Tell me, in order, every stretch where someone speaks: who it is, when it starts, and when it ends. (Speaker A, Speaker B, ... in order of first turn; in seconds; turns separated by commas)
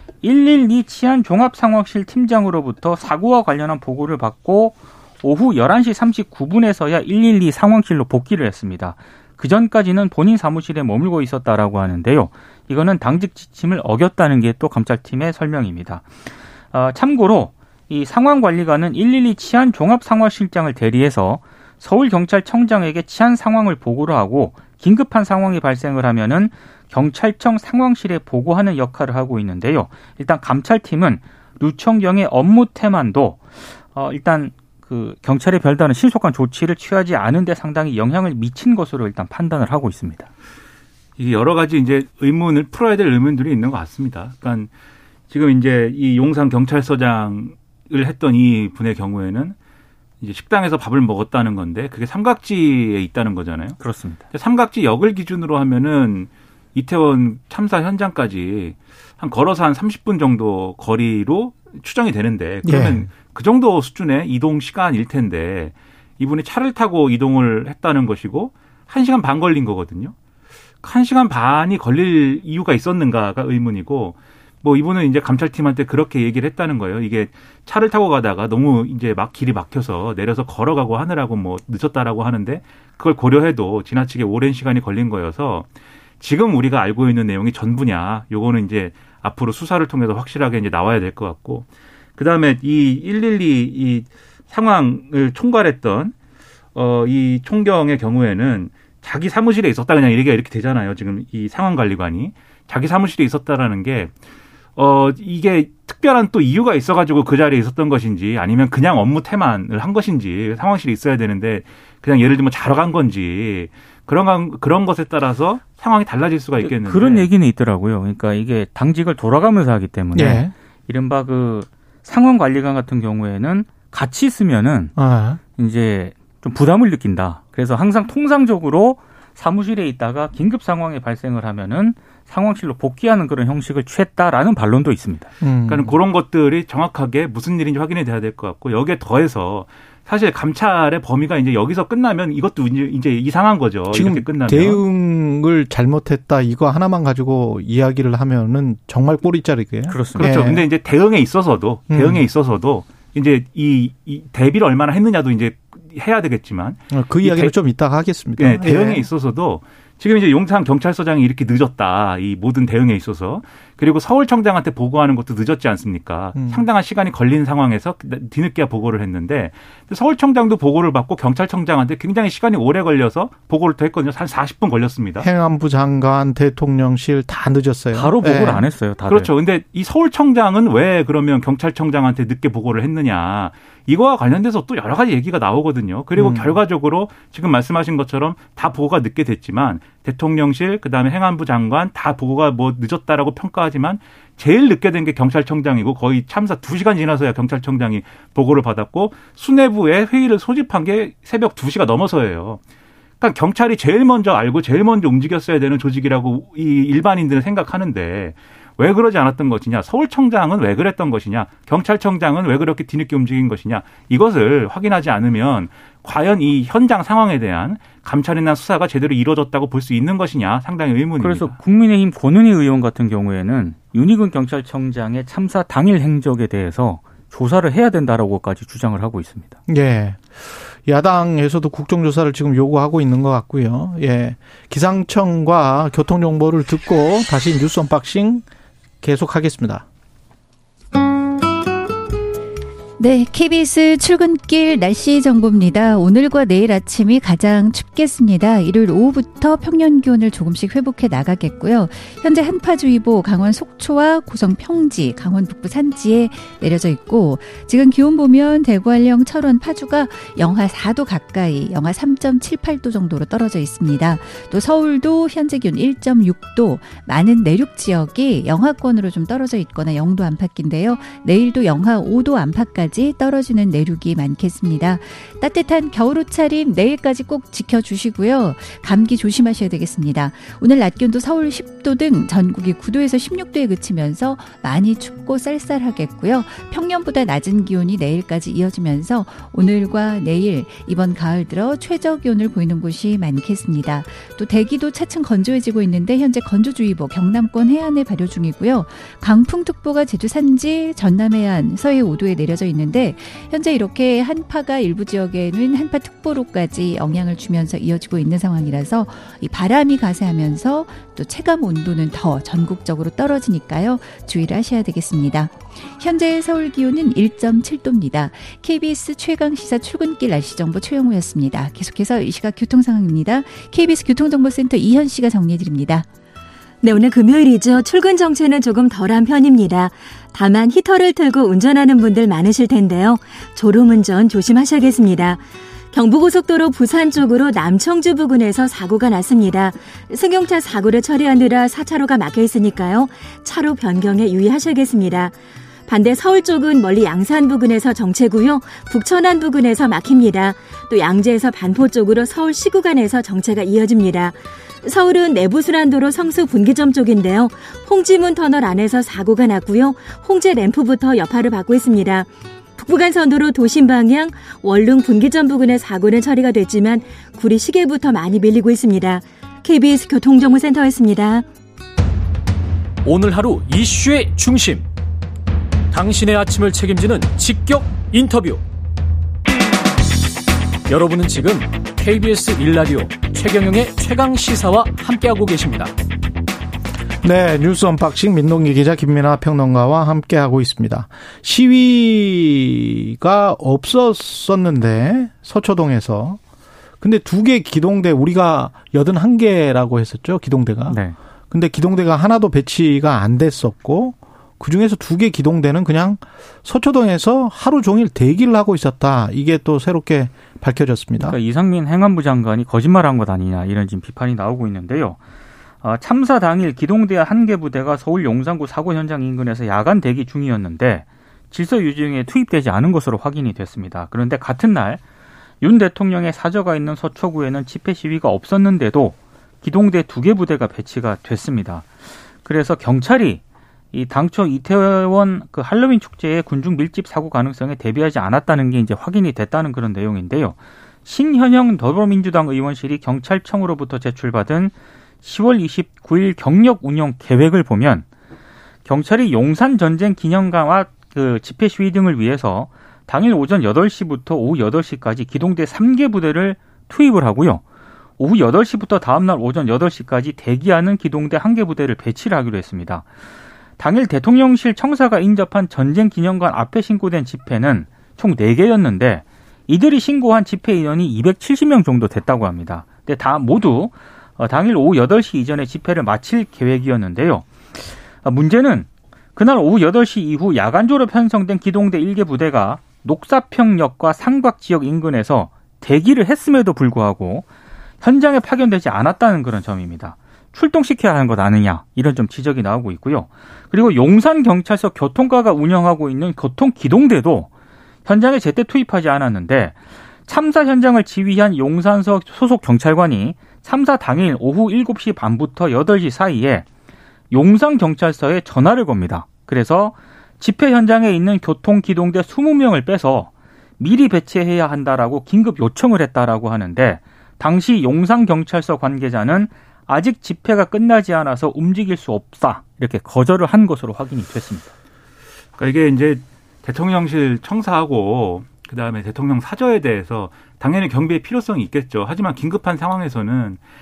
Speaker A: 0.2-16.1, Speaker A: 16.7-33.4, Speaker A: 33.9-40.3, Speaker B: 41.2-44.7, Speaker B: 45.3-49.6, Speaker B: 50.2-53.8, Speaker A: 53.8-54.2, Speaker B: 54.3-70.1, Speaker C: 62.6-63.1, Speaker B: 70.8-85.7, Speaker B: 86.2-96.1, Speaker B: 96.8-104.1, Speaker B: 104.8-117.3, Speaker A: 116.6-125.0, Speaker C: 120.2-120.5, Speaker C: 125.0-125.4, Speaker A: 125.6-135.3, Speaker C: 135.4-136.0, Speaker B: 135.7-144.8, Speaker C: 143.9-150.6, Speaker A: 149.9-150.5, Speaker B: 150.2-157.6, Speaker C: 151.9-152.2, Speaker C: 156.9-159.1, Speaker B: 158.4-175.3, Speaker C: 166.4-166.7, Speaker C: 175.2-178.7, Speaker A: 177.9-179.3, Speaker B: 179.1-202.6, Speaker C: 186.2-186.6, Speaker B: 203.2-221.6, Speaker A: 221.2-229.6, Speaker C: 229.7-238.5, Speaker C: 239.0-239.9, Speaker D: 243.0-326.1, Speaker E: 326.8-371.5, Speaker F: 373.0-374.9, Speaker F: 375.9-378.6, Speaker F: 380.9-385.9, Speaker C: 387.2-396.4, Speaker C: 397.0-401.0, Speaker A: 400.9-401.2, Speaker C: 401.5-411.4, Speaker A: 411.2-415.2, Speaker A: 415.8-425.0, Speaker A: 425.6-431.9, Speaker A: 432.4-433.4, Speaker A: 433.9-448.1, Speaker A: 448.9-457.6, Speaker A: 458.2-463.1, Speaker A: 463.8-487.5, Speaker A: 488.0-497.5, Speaker A: 498.1-506.7, Speaker A: 507.3-524.7, Speaker B: 525.6-533.6